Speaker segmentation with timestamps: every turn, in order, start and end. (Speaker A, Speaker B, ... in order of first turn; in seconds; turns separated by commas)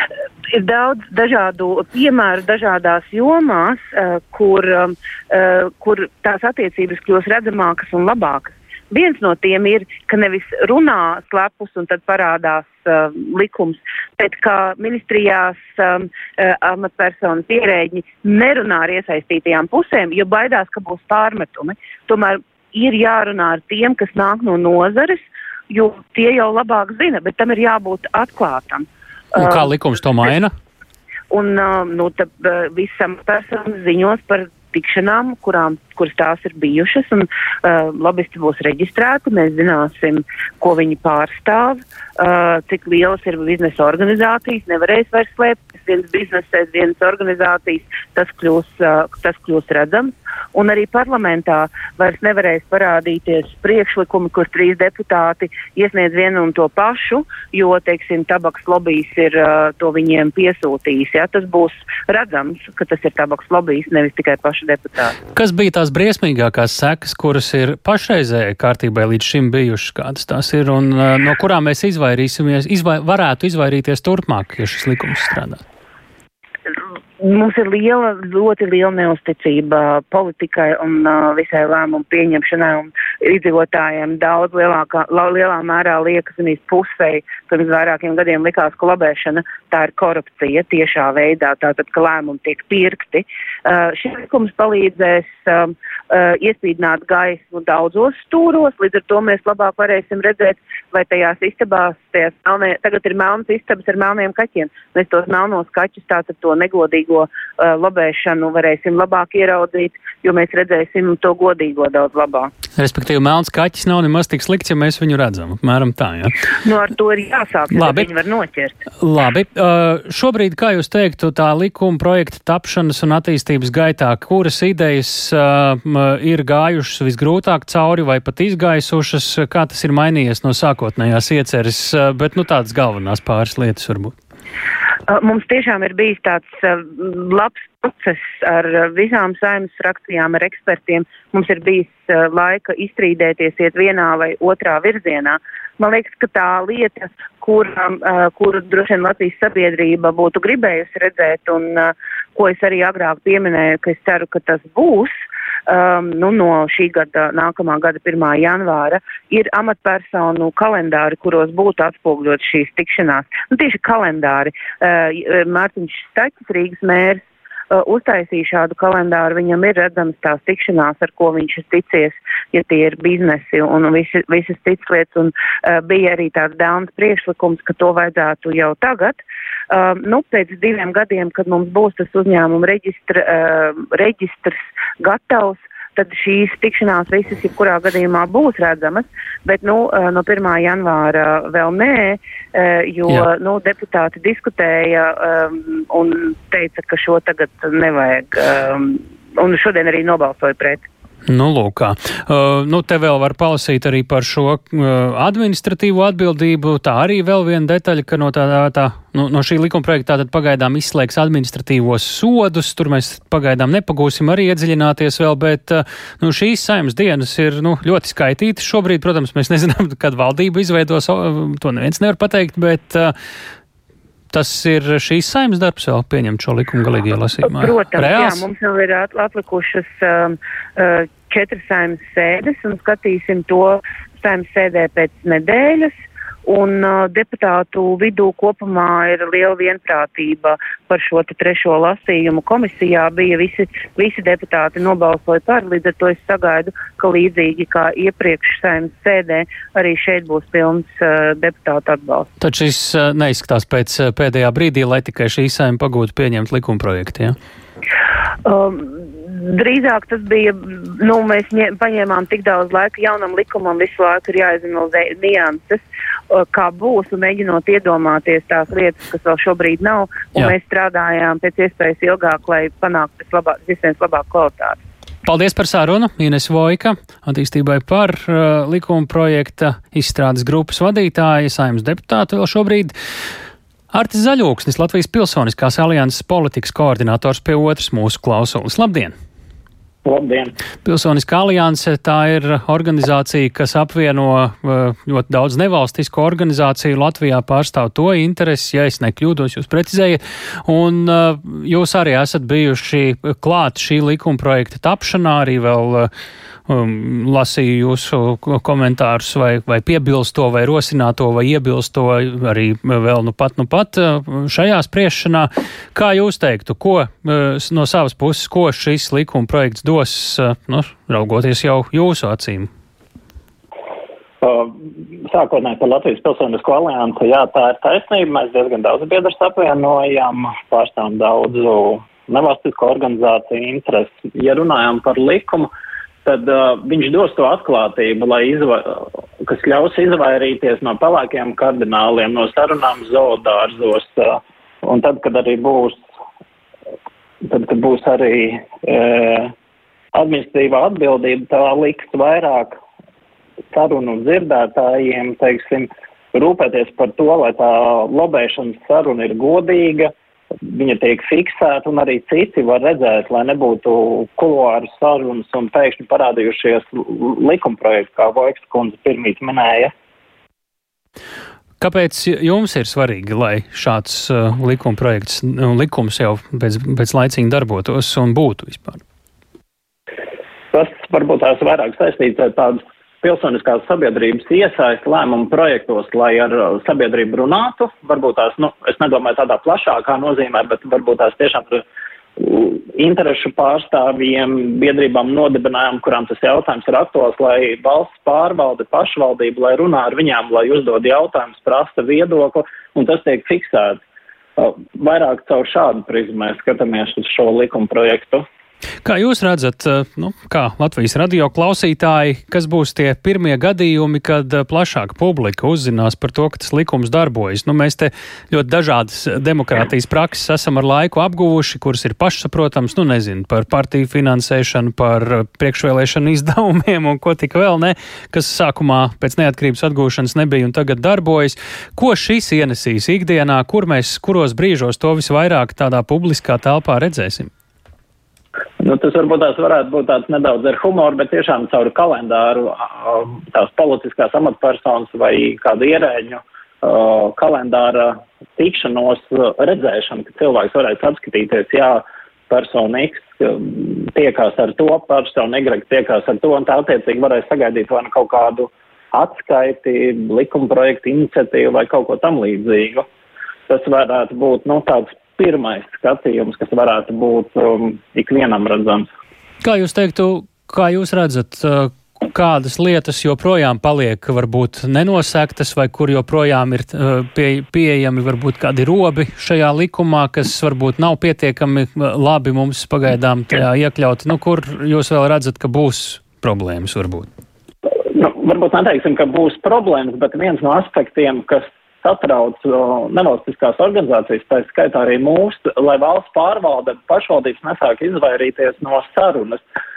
Speaker A: 0.5-29.7, Speaker B: 29.3-30.5, Speaker A: 31.3-65.2, Speaker B: 65.3-75.6, Speaker A: 77.2-112.5, Speaker B: 112.8-116.3, Speaker A: 116.6-118.8, Speaker B: 117.7-118.1, Speaker B: 119.0-134.1, Speaker A: 135.1-155.1, Speaker A: 155.7-200.8, Speaker B: 201.3-223.1, Speaker B: 224.3-228.4, Speaker A: 227.4-235.9, Speaker A: 236.4-252.3, Speaker B: 252.4-257.4, Speaker A: 258.4-274.8, Speaker B: 275.2-282.9, Speaker B: 283.9-289.1, Speaker C: 290.0-290.5, Speaker B: 290.8-306.1, Speaker B: 306.7-322.7, Speaker C: 324.4-324.7, Speaker C: 325.3-335.7, Speaker C: 336.2-346.0, Speaker C: 347.4-349.5, Speaker C: 350.1-352.8, Speaker C: 353.7-360.1, Speaker C: 360.6-369.9, Speaker B: 371.8-379.0, Speaker C: 380.7-391.8, Speaker C: 392.4-404.0, Speaker C: 404.6-408.4, Speaker B: 409.0-437.5, Speaker C: 438.8-463.1, Speaker C: 463.7-469.1, Speaker B: 469.6-487.3, Speaker C: 488.1-499.6